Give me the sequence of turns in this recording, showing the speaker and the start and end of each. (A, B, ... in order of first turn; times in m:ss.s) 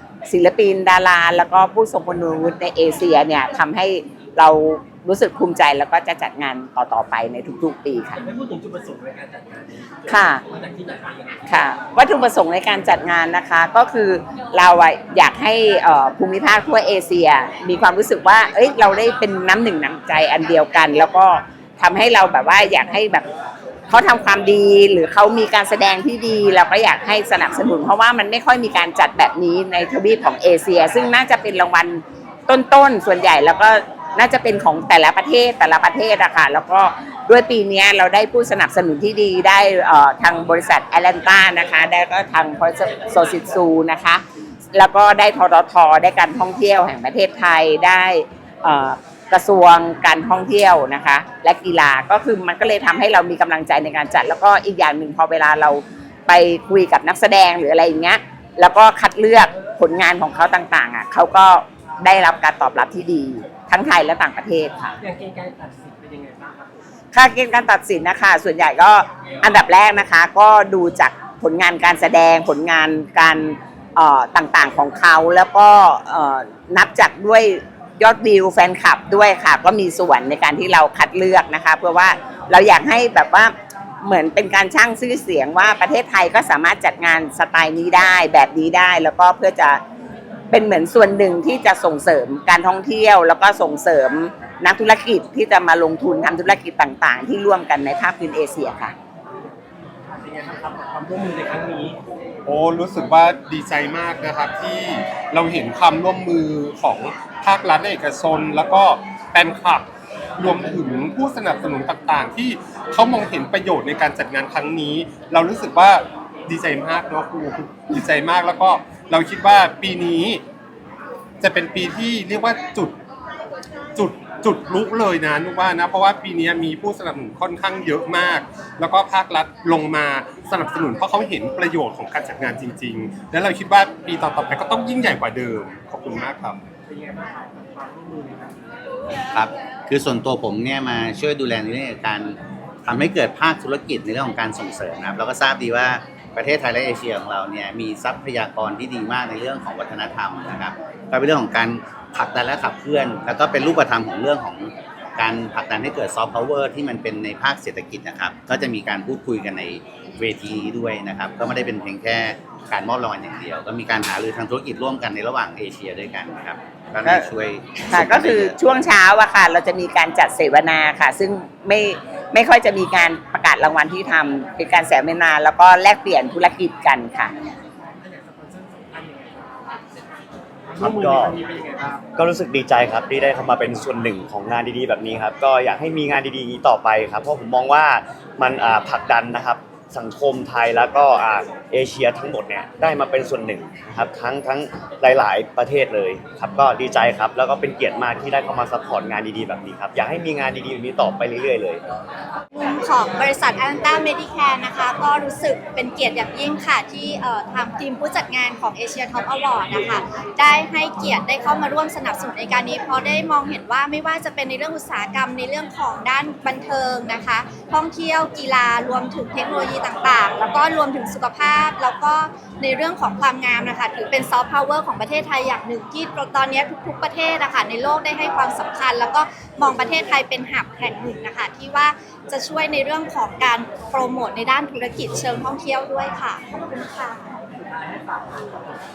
0:00.3-0:08.2 A
0:08.2-0:11.6 B
0:10.1-0:10.4 A
0:11.4-0:23.2 A
0:23.9-0:44.2 A
0:44.7-1:05.0 A
1:05.0-1:06.8 B
1:07.1-1:29.8 A
1:30.5-1:38.9 A
1:40.1-1:42.0 B
1:42.5-1:49.8 C
1:50.4-2:00.4 C
2:01.4-2:03.0 C
2:04.0-2:16.6 C
2:16.8-2:18.8 B
2:19.3-2:48.6 D
2:47.8-2:57.3 A
2:58.0-2:59.5 B
3:00.6-3:02.0 B
3:00.8-3:01.4 E
3:02.2-3:21.8 E
3:22.6-3:57.3 F
3:57.5-3:58.8 B